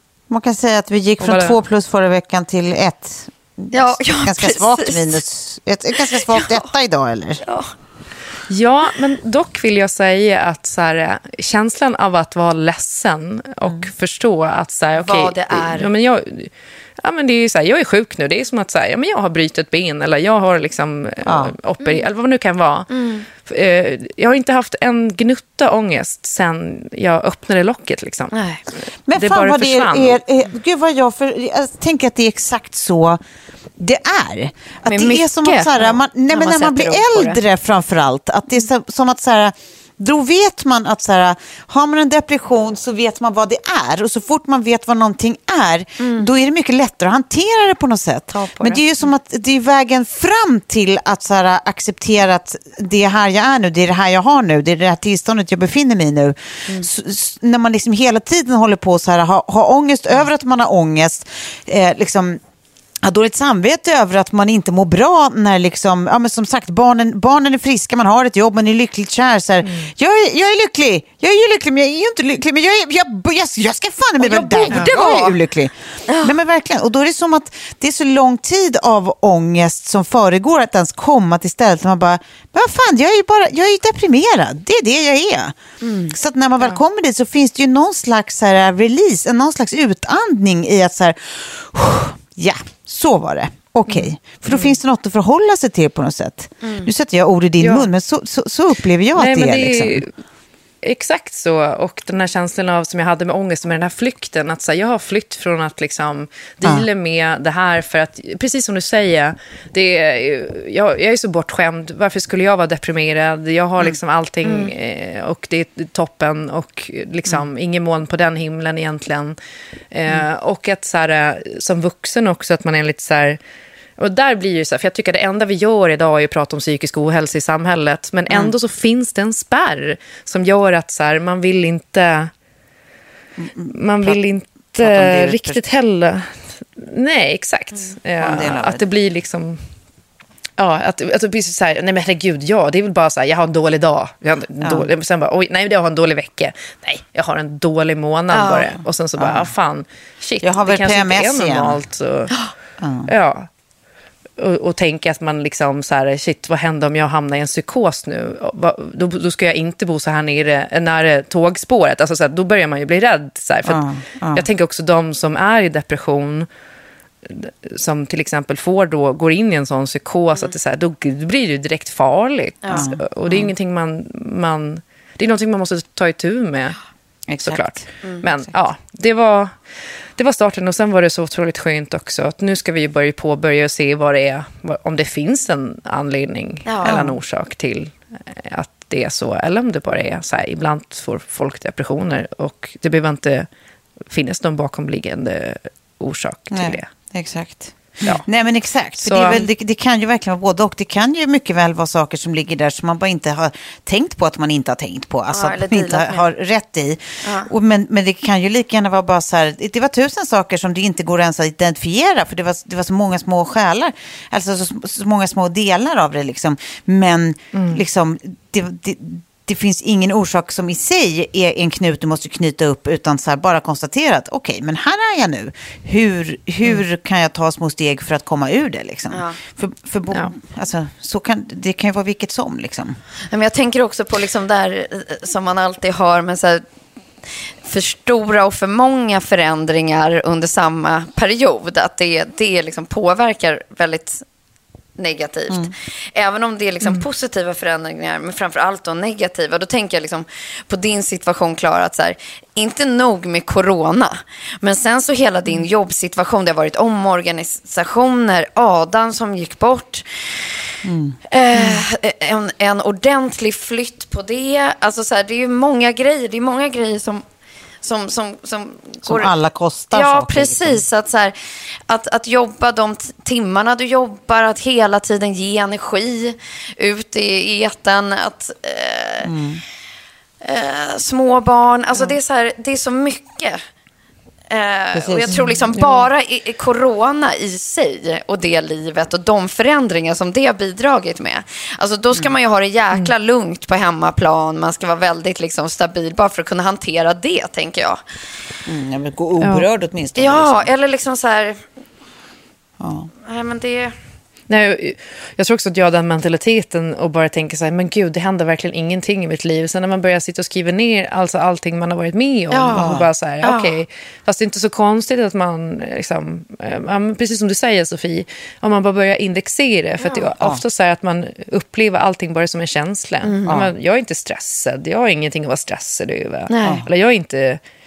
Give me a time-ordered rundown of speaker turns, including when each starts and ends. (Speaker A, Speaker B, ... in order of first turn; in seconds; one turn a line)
Speaker A: 0.3-7.4
Speaker B: 1.2-1.6
Speaker C: 3.7-5.2
Speaker C: 6.0-6.7
Speaker C: 7.4-7.7
Speaker B: 8.5-28.4
Speaker C: 15.0-15.9
Speaker A: 21.2-21.5
Speaker C: 22.9-23.2
Speaker C: 28.3-28.6
Speaker A: 29.1-33.2
Speaker B: 29.1-30.2
Speaker A: 33.8-62.4
Speaker C: 34.9-37.4
Speaker C: 46.0-46.3
Speaker C: 48.3-48.8
Speaker A: 63.0-85.6
Speaker C: 74.2-75.4
Speaker B: 74.7-75.0
Speaker C: 76.1-76.3
Speaker C: 85.8-86.8
Speaker A: 86.1-100.0
Speaker C: 96.6-96.9
Speaker B: 97.6-97.9
Speaker B: 99.2-100.1
Speaker B: 100.8-119.4
Speaker C: 114.5-114.7
Speaker B: 119.9-123.4
Speaker B: 124.0-132.3
Speaker A: 133.4-134.2
Speaker B: 133.7-139.6
Speaker A: 134.8-135.6
Speaker A: 138.2-138.8
Speaker B: 140.6-152.3
Speaker A: 144.6-144.9
Speaker C: 148.3-148.7
Speaker A: 149.2-149.5
Speaker A: 150.4-151.8
Speaker A: 152.8-153.1
Speaker B: 153.1-153.5
Speaker B: 154.4-166.5
Speaker A: 163.7-164.5
Speaker B: 167.2-176.8
Speaker A: 172.7-173.5
Speaker A: 177.3-177.8
Speaker B: 177.4-179.5
Speaker B: 180.2-193.5
Speaker C: 186.7-186.9
Speaker A: 186.8-187.2
Speaker B: 194.1-196.9
Speaker A: 196.5-233.0
Speaker B: 199.0-199.5
Speaker C: 205.3-206.2
Speaker C: 207.2-207.5
Speaker B: 217.5-217.8
Speaker C: 229.1-229.4
Speaker C: 233.3-236.7
Speaker C: 237.6-244.2
Speaker C: 245.0-260.5
Speaker A: 260.8-261.2
Speaker C: 261.3-267.2
Speaker C: 267.8-269.3
Speaker A: 269.1-270.8
Speaker C: 269.9-271.4
Speaker C: 271.9-279.3
Speaker A: 279.2-279.6
Speaker C: 280.4-283.6
Speaker C: 284.5-298.0
Speaker A: 284.9-285.6
Speaker B: 285.7-286.1
Speaker A: 298.7-300.7
Speaker B: 299.4-299.7
Speaker C: 300.2-301.6
Speaker A: 302.8-303.1
Speaker C: 303.2-303.9
Speaker B: 304.5-327.6
Speaker C: 312.5-312.9
Speaker A: 312.8-313.1
Speaker C: 313.4-313.8
Speaker C: 320.0-320.3
Speaker C: 323.2-323.5
Speaker C: 326.5-326.8